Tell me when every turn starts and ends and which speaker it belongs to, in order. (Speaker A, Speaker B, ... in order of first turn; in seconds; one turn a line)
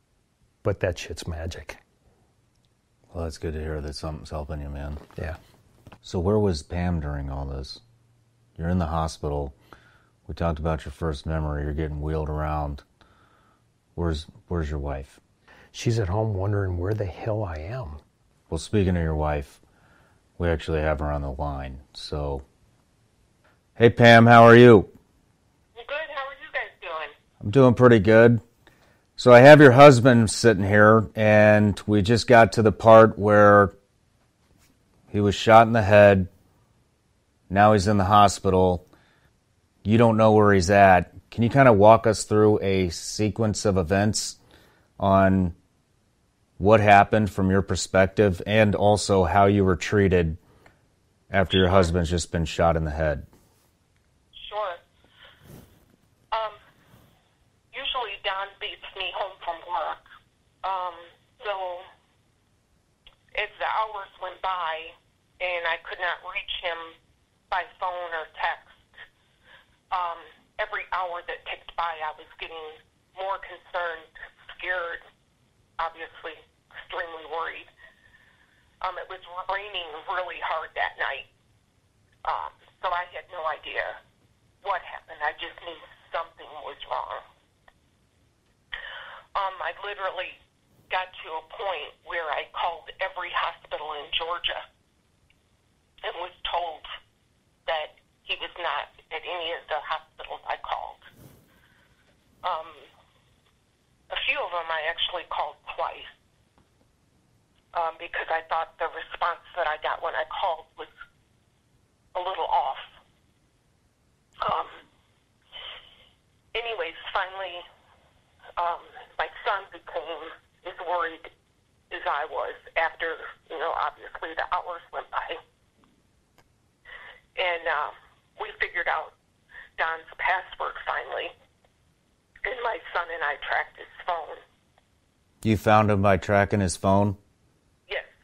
Speaker A: 0.6-1.8
Speaker B: 3.1-5.0
Speaker B: 6.0-7.8
Speaker B: 8.6-9.6
Speaker B: 10.3-12.8
Speaker B: 14.0-15.2
Speaker A: 15.7-18.0
Speaker B: 18.5-19.6
Speaker B: 20.4-22.4
Speaker B: 23.8-24.9
Speaker C: 25.8-27.1
Speaker B: 27.4-28.4
Speaker B: 29.2-33.7
Speaker B: 35.1-36.3
Speaker B: 37.5-38.9
Speaker B: 39.8-44.4
Speaker B: 45.0-45.6
Speaker B: 46.6-50.4
Speaker B: 51.3-53.3
Speaker C: 51.6-51.9
Speaker C: 54.4-54.8
Speaker C: 56.3-56.6
Speaker C: 57.7-60.0
Speaker C: 60.6-61.9
Speaker C: 63.3-67.0
Speaker C: 67.5-68.9
Speaker C: 69.9-75.0
Speaker C: 75.8-77.7
Speaker C: 78.8-81.3
Speaker C: 82.2-84.0
Speaker C: 84.6-87.2
Speaker C: 89.3-90.4
Speaker C: 90.9-94.7
Speaker C: 96.0-96.9
Speaker C: 97.7-101.1
Speaker C: 102.4-102.9
Speaker C: 104.1-106.1
Speaker C: 107.7-110.9
Speaker C: 112.1-112.9
Speaker C: 114.4-114.8
Speaker C: 116.5-117.7
Speaker C: 118.6-121.3
Speaker C: 121.9-125.4
Speaker C: 127.4-129.1
Speaker C: 129.8-131.3
Speaker C: 132.4-134.4
Speaker B: 135.4-137.2